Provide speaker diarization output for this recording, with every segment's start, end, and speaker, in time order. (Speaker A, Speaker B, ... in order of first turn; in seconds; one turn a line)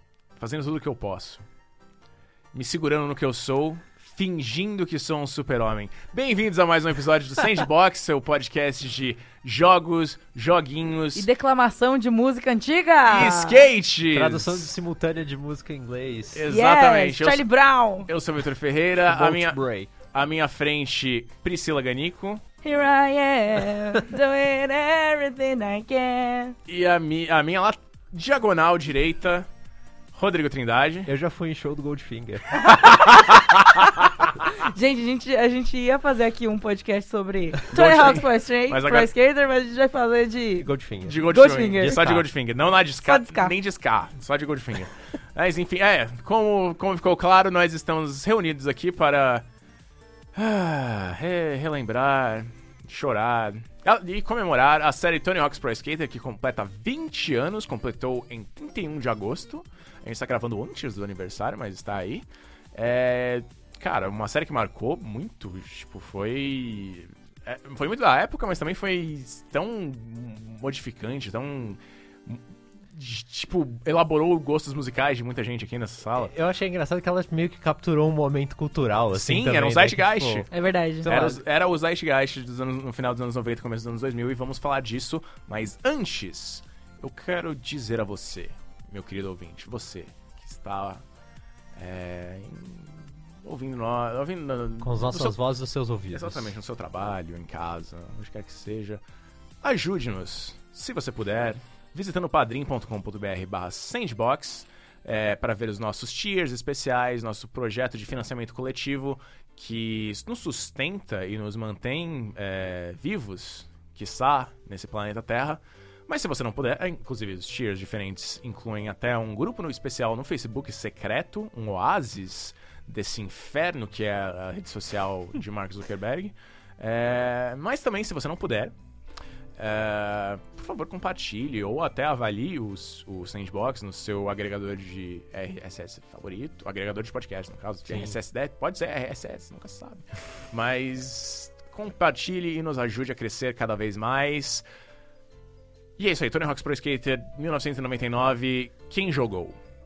Speaker A: 0.4-1.4
Speaker A: 2.5-11.3
Speaker B: 11.2-13.6
Speaker A: 13.1-14.7
Speaker C: 14.1-16.5
Speaker A: 16.3-17.5
Speaker B: 16.5-18.1
Speaker A: 18.1-19.6
Speaker C: 19.1-19.9
Speaker A: 20.1-22.4
Speaker B: 22.6-26.6
Speaker A: 26.7-29.5
Speaker A: 30.1-31.1
Speaker C: 31.1-33.1
Speaker A: 32.7-34.5
Speaker B: 33.8-40.7
Speaker A: 37.7-39.1
Speaker C: 40.6-42.3
Speaker A: 41.0-49.4
Speaker B: 41.2-42.1
Speaker B: 43.0-43.5
Speaker A: 50.3-76.3
Speaker C: 76.2-80.5
Speaker A: 79.1-80.5
Speaker B: 80.5-81.1
Speaker C: 81.0-81.4
Speaker A: 81.1-91.0
Speaker A: 91.8-95.4
Speaker C: 94.8-96.6
Speaker A: 96.1-99.0
Speaker A: 99.6-128.7
Speaker A: 129.6-144.6
Speaker C: 137.9-138.2
Speaker A: 146.0-149.6